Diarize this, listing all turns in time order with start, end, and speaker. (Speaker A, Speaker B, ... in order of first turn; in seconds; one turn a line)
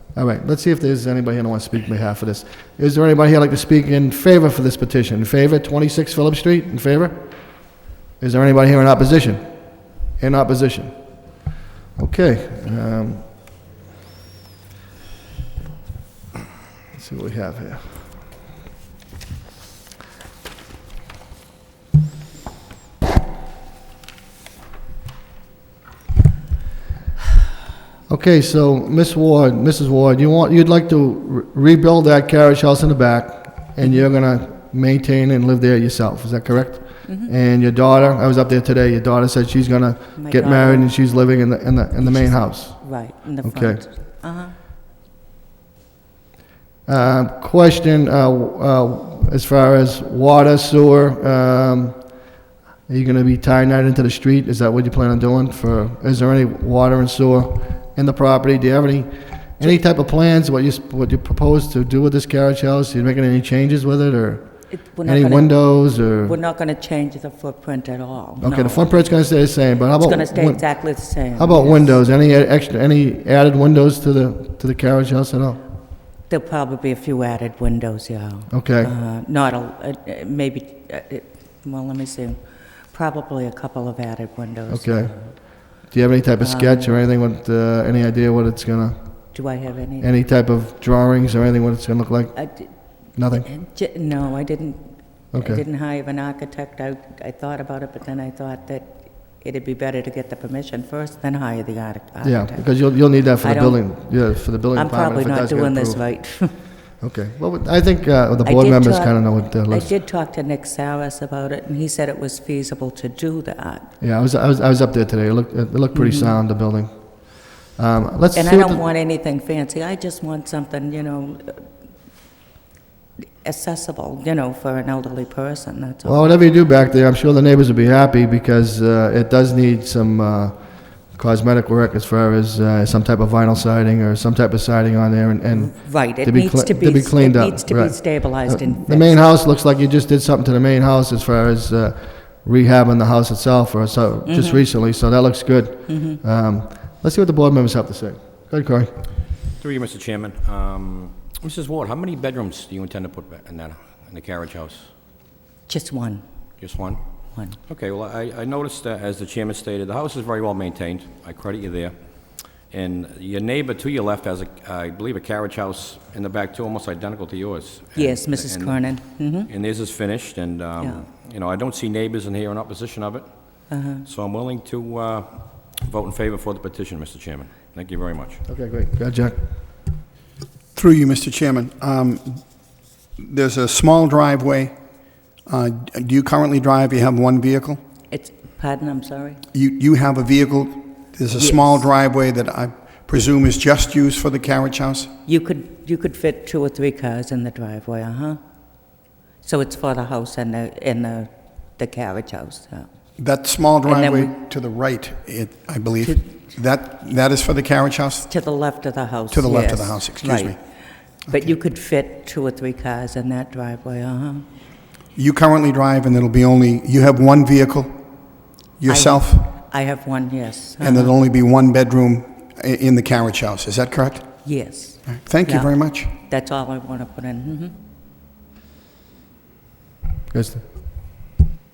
Speaker A: 0.1-11.3
Speaker A: 11.9-13.2
Speaker A: 16.9-18.2
Speaker A: 28.1-43.8
Speaker B: 37.0-37.3
Speaker B: 40.2-40.9
Speaker B: 42.0-44.5
Speaker A: 46.9-52.2
Speaker A: 52.9-64.5
Speaker B: 64.7-65.6
Speaker A: 65.0-66.3
Speaker B: 66.2-68.9
Speaker A: 68.4-75.6
Speaker B: 70.0-72.0
Speaker B: 76.3-82.4
Speaker A: 78.5-78.9
Speaker B: 82.9-85.3
Speaker A: 84.7-89.0
Speaker B: 86.4-86.9
Speaker B: 89.3-90.1
Speaker A: 90.0-92.5
Speaker B: 92.3-92.7
Speaker A: 93.2-93.5
Speaker B: 93.3-104.0
Speaker A: 95.3-95.6
Speaker A: 102.2-106.3
Speaker B: 104.7-106.5
Speaker A: 107.0-109.9
Speaker B: 108.4-113.9
Speaker A: 114.0-118.8
Speaker B: 115.9-116.4
Speaker B: 118.3-121.6
Speaker B: 123.4-126.4
Speaker A: 126.0-148.9
Speaker B: 135.5-139.2
Speaker B: 144.2-144.7
Speaker B: 145.9-146.2
Speaker C: 149.6-154.9
Speaker B: 155.7-156.2
Speaker C: 156.6-157.0
Speaker B: 157.3-157.6
Speaker C: 157.7-161.9
Speaker C: 162.7-168.8
Speaker B: 167.9-169.5
Speaker C: 169.5-173.2
Speaker B: 170.8-171.1
Speaker B: 173.7-174.1
Speaker C: 174.0-178.4
Speaker A: 178.5-179.4
Speaker D: 180.7-182.4
Speaker D: 183.2-184.7
Speaker D: 185.4-187.8
Speaker B: 188.1-189.4
Speaker D: 189.5-195.1
Speaker B: 191.3-191.8
Speaker B: 195.2-198.4
Speaker B: 199.4-202.9
Speaker D: 203.2-208.3
Speaker B: 203.8-204.3
Speaker B: 208.2-214.4
Speaker D: 209.3-210.6
Speaker D: 211.3-211.5
Speaker D: 215.1-218.0
Speaker D: 218.8-219.5
Speaker B: 218.8-221.1
Speaker D: 220.8-224.3
Speaker B: 224.4-227.7
Speaker D: 225.1-226.1
Speaker A: 230.3-230.6